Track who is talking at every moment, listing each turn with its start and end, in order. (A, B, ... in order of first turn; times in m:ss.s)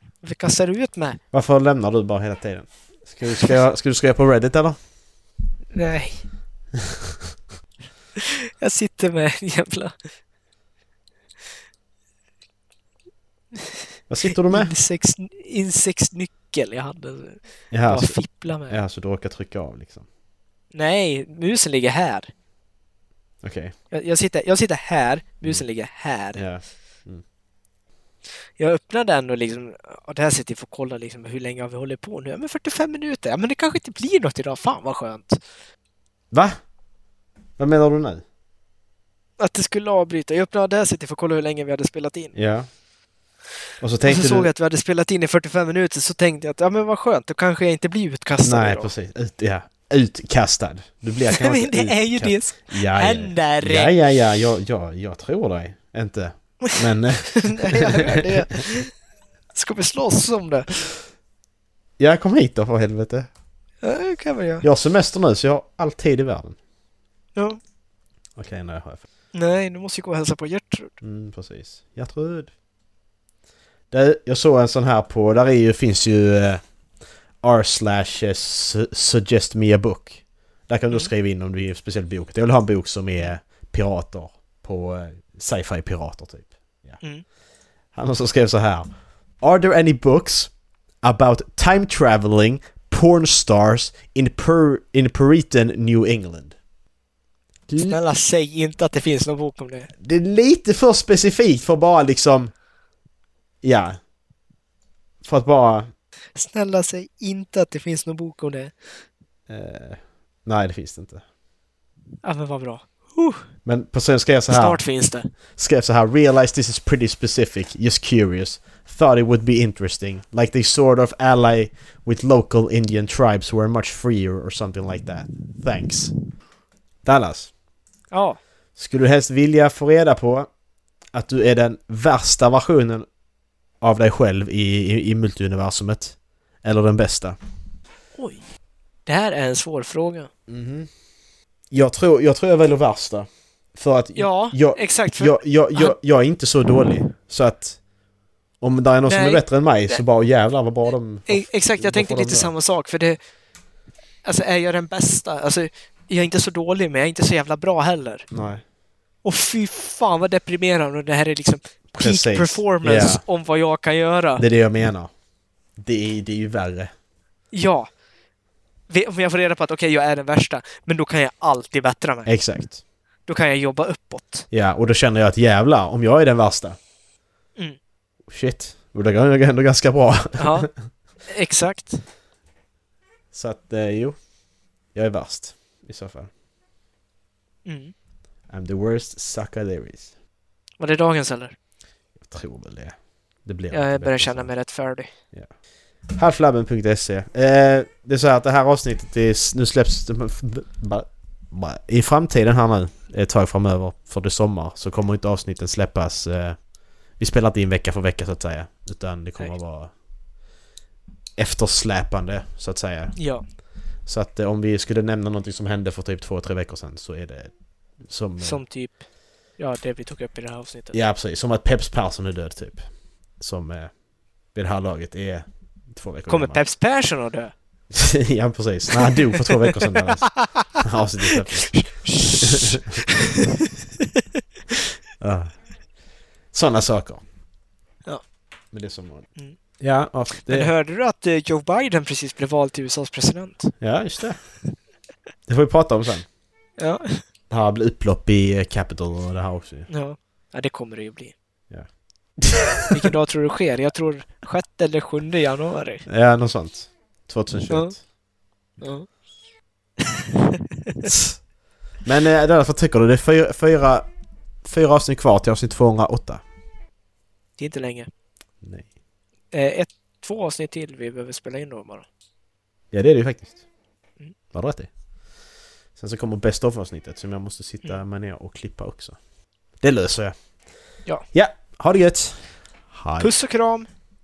0:00.2-0:01.2 A
0:01.3-0:04.8 B
0:05.7-0:06.2 A
0:08.2-0:10.1 A
0:14.1-0:14.7 B
0:14.3-0:18.8 A
0:17.7-0:20.1 B
0:20.7-0:22.3 A
0:23.4-0:23.8 B
0:23.9-0:26.4 A
0:26.3-0:27.2 B
0:28.6-0:35.4 A
0:36.3-0:36.6 B
0:37.6-0:38.2 B
0:39.4-0:42.4 A
0:42.3-0:42.7 B
0:43.8-0:44.5 B
0:44.0-0:48.9 A
0:48.4-0:58.3 B
0:51.3-0:53.9 A
0:57.4-0:58.9 A
0:59.5-1:00.9 A
1:02.0-1:03.3 B
1:03.8-1:04.6 A
1:04.6-1:06.6 B
1:08.4-1:09.0 B
1:09.3-1:10.9 A
1:11.0-1:12.5 B
1:13.9-1:16.6 B
1:17.4-1:27.0 B
1:27.9-1:28.9 B
1:29.4-1:36.6 B
1:37.7-1:38.0 B
1:37.8-1:39.9 A
1:40.0-1:42.5 B
1:43.6-1:44.0 B
1:45.2-1:45.9 B
1:46.4-1:49.0 A
1:49.5-1:51.2 B
1:52.2-1:53.5 A
1:53.6-1:54.8 B
1:54.5-1:55.3 A
1:55.4-2:06.1 B
2:07.0-2:07.5 B
2:08.1-2:08.4 A
2:08.8-2:10.5 B
2:11.1-2:13.1 B
2:13.8-2:17.4 B
2:18.1-2:18.4 A
2:19.1-2:20.3 A
2:20.5-2:20.9 B
2:21.7-2:27.8 B
2:24.2-2:26.0 A
2:28.6-2:32.5 B
2:29.1-2:30.0 A
2:31.3-2:33.2 A
2:34.2-2:38.3 A
2:38.3-2:38.6 B
2:39.2-2:44.4 A
2:42.0-2:43.2 B
2:44.4-2:45.1 B
2:45.8-2:46.9 B
2:47.5-2:47.9 A
2:48.9-2:52.4 A
2:52.3-2:52.8 B
2:53.3-2:54.5 A
2:54.5-2:56.8 B
2:58.3-3:00.8 B
3:00.4-3:00.7 A
3:01.2-3:02.0 A
3:03.3-3:04.2 B
3:04.9-3:06.3 B
3:07.7-3:07.9 A
3:08.5-3:10.1 B
3:10.8-3:11.6 A
3:12.2-3:14.5 B
3:13.7-3:15.1 A
3:16.1-3:26.6 B
3:27.2-3:29.9 B
3:31.4-3:33.2 B
3:33.2-3:33.4 A
3:34.1-3:38.6 B
3:38.4-3:39.0 A
3:39.6-3:41.0 A
3:40.9-3:42.9 B
3:43.4-3:44.0 B
3:44.5-3:46.6 B
3:46.3-3:47.5 A
3:47.9-3:53.0 B
3:49.4-3:49.8 A
3:50.3-3:53.5 A
3:55.2-3:55.6 B
3:56.5-3:57.2 B
3:58.7-4:00.7 B
4:00.4-4:03.8 A
4:03.8-4:04.4 B
4:05.5-4:06.3 B
4:06.8-4:07.2 A
4:07.5-4:09.9 B
4:09.9-4:11.4 A
4:11.7-4:12.9 B
4:12.9-4:16.0 A
4:16.1-4:18.0 B
4:17.7-4:18.0 A
4:18.8-4:19.1 A
4:20.1-4:21.2 A
4:22.0-4:24.1 B
4:24.6-4:26.4 B
4:27.6-4:28.1 A
4:28.6-4:28.9 B
4:29.5-4:32.1 A
4:32.9-4:33.6 B
4:34.5-4:34.9 B
4:36.0-4:39.2 B
4:39.8-4:40.4 B
4:41.3-4:43.3 B
4:43.2-4:43.9 A